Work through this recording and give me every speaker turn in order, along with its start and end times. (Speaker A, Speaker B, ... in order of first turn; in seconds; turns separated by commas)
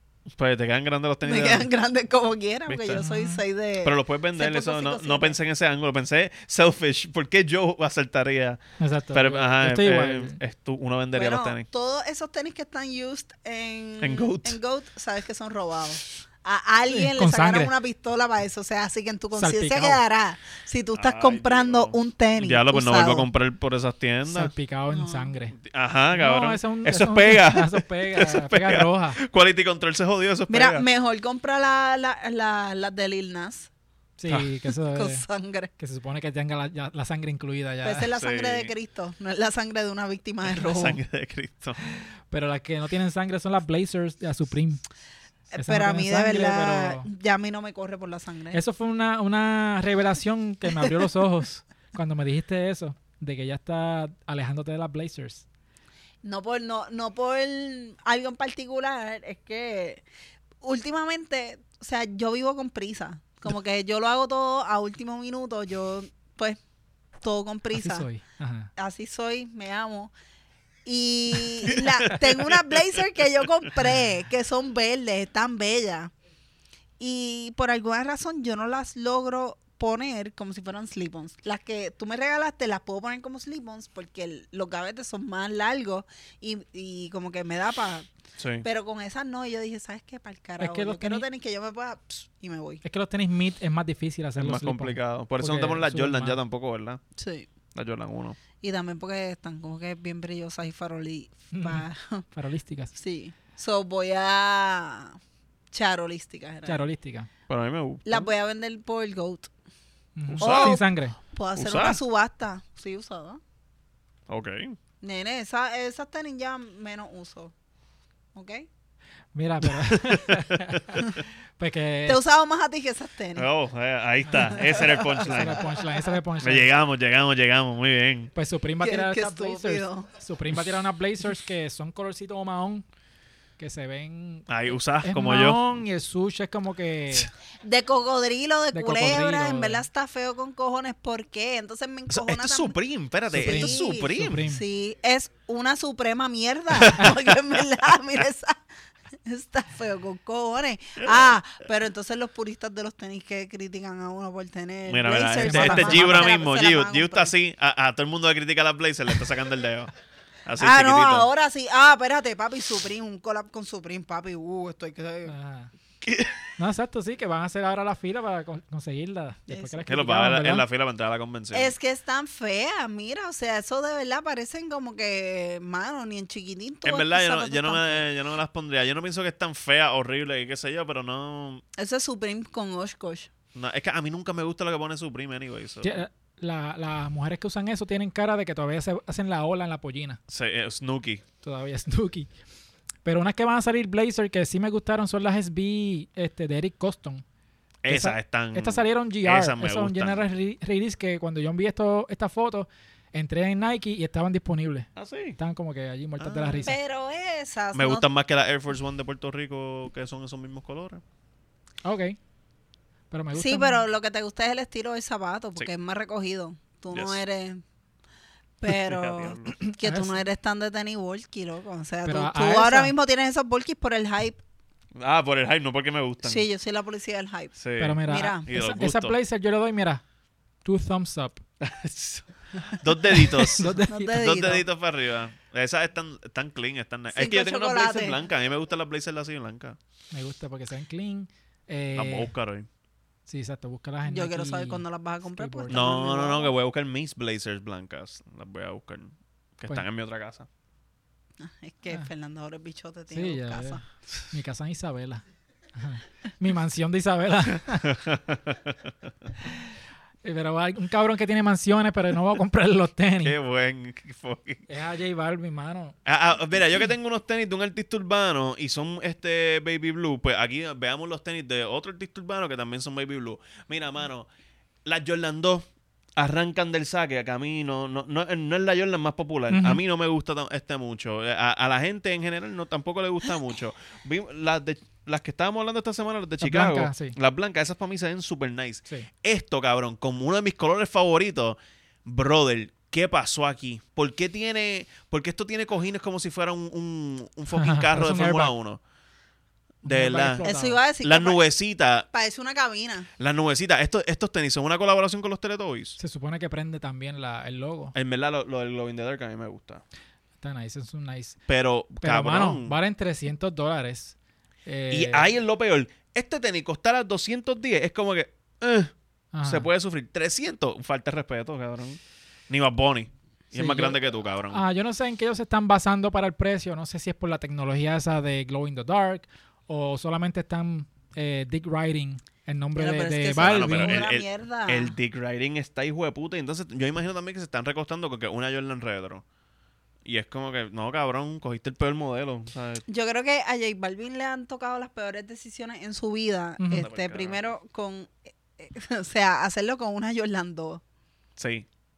Speaker A: 0.4-1.7, Speaker B: 1.2-5.4, Speaker A: 2.7-3.0, Speaker C: 3.0-3.4, Speaker A: 3.8-8.6, Speaker C: 8.8-10.4, Speaker A: 9.1-11.7, Speaker B: 11.1-23.3, Speaker A: 14.0-14.6, Speaker C: 16.9-17.7, Speaker C: 19.3-20.0, Speaker A: 20.9-24.5, Speaker C: 24.3-25.6, Speaker B: 24.9-25.3, Speaker A: 25.6-30.9, Speaker C: 26.1-29.2, Speaker B: 30.5-33.7, Speaker C: 34.2-35.2, Speaker A: 34.3-34.6, Speaker B: 34.9-35.7, Speaker C: 35.8-38.1, Speaker B: 37.8-41.0, Speaker A: 38.2-38.7, Speaker A: 40.5-41.8, Speaker C: 42.3-44.8, Speaker C: 45.5-47.1, Speaker B: 45.5-48.6, Speaker C: 48.5-55.5, Speaker B: 56.2-60.0, Speaker B: 60.6-66.6, Speaker B: 67.2-68.1, Speaker C: 67.7-68.7, Speaker B: 68.8-70.1, Speaker B: 70.8-76.1, Speaker A: 71.7-72.8, Speaker B: 77.0-88.1, Speaker A: 88.4-88.7, Speaker B: 88.6-92.8, Speaker C: 90.6-91.2, Speaker C: 92.8-96.4, Speaker A: 94.4-97.0, Speaker B: 97.2-97.5, Speaker A: 97.8-98.4, Speaker B: 98.6-102.2, Speaker C: 101.5-102.9, Speaker B: 103.0-105.2, Speaker B: 105.7-106.8, Speaker C: 106.7-107.3, Speaker A: 107.5-108.3, Speaker B: 108.1-109.5, Speaker C: 110.2-111.2, Speaker A: 110.3-110.8, Speaker B: 110.4-113.4, Speaker A: 111.5-112.0, Speaker A: 114.3-114.8, Speaker B: 115.0-117.5, Speaker B: 118.3-118.7, Speaker C: 119.3-122.2, Speaker A: 119.8-121.0, Speaker B: 122.1-123.5, Speaker A: 123.3-125.8, Speaker C: 124.3-126.7, Speaker B: 124.5-125.6, Speaker A: 126.4-128.3, Speaker C: 128.3-132.8, Speaker B: 128.8-130.1, Speaker C: 133.6-137.3, Speaker A: 134.5-135.8, Speaker B: 137.6-142.8, Speaker C: 138.7-139.8, Speaker A: 142.1-144.4, Speaker C: 143.3-144.6, Speaker B: 143.4-148.6, Speaker A: 146.7-147.6, Speaker B: 149.2-157.3, Speaker A: 154.9-159.9, Speaker C: 155.4-156.3, Speaker A: 160.5-161.3, Speaker B: 160.6-165.3, Speaker C: 165.3-165.7, Speaker A: 166.0-166.5, Speaker C: 166.6-170.6, Speaker B: 169.5-169.8, Speaker A: 169.9-171.8, Speaker B: 171.5-178.1, Speaker A: 176.8-181.6, Speaker B: 181.8-183.3, Speaker A: 183.6-185.9, Speaker C: 185.8-190.2, Speaker A: 190.3-191.2, Speaker C: 191.4-192.3, Speaker C: 193.1-197.2, Speaker A: 197.8-200.2, Speaker C: 197.9-206.8, Speaker A: 205.0-205.4, Speaker A: 206.2-206.7, Speaker B: 206.6-208.1, Speaker A: 207.7-211.0, Speaker C: 211.8-212.2, Speaker C: 213.1-213.8, Speaker B: 213.3-217.6, Speaker A: 216.9-217.2, Speaker B: 218.6-224.4, Speaker A: 218.7-219.6, Speaker C: 219.6-220.2, Speaker C: 222.1-222.9, Speaker A: 225.0-226.5, Speaker B: 226.2-227.6, Speaker A: 227.6-229.2, Speaker C: 227.8-230.0, Speaker B: 228.1-228.4, Speaker C: 230.6-231.4, Speaker A: 231.6-239.8, Speaker C: 233.4-234.2, Speaker B: 233.9-234.6, Speaker B: 237.1-238.2, Speaker C: 240.1-242.3, Speaker A: 241.9-242.7, Speaker C: 243.3-245.8, Speaker B: 244.1-246.5, Speaker A: 245.7-250.5, Speaker B: 251.4-253.8, Speaker C: 253.1-255.2, Speaker C: 255.8-258.0, Speaker A: 257.8-258.9, Speaker C: 260.2-263.4, Speaker A: 263.2-264.6, Speaker C: 264.7-265.9, Speaker A: 266.1-274.3, Speaker A: 274.9-275.6, Speaker A: 276.2-298.8, Speaker C: 279.5-279.8, Speaker C: 286.4-287.2, Speaker C: 297.6-298.5, Speaker A: 299.8-300.5, Speaker C: 299.9-300.8, Speaker B: 300.4-301.4, Speaker A: 301.0-302.1, Speaker B: 302.1-303.1, Speaker A: 303.2-306.0, Speaker C: 306.0-307.9, Speaker A: 307.9-309.8, Speaker C: 310.4-311.4, Speaker A: 311.5-312.8, Speaker C: 312.0-315.3, Speaker A: 314.9-318.9, Speaker C: 319.3-319.7, Speaker A: 319.4-324.6, Speaker C: 323.5-324.0, Speaker C: 324.5-334.0, Speaker B: 332.8-335.0, Speaker A: 333.4-339.2, Speaker A: 340.1-342.8, Speaker B: 342.9-350.8, Speaker C: 346.6-346.9, Speaker A: 346.8-347.4, Speaker A: 351.4-351.6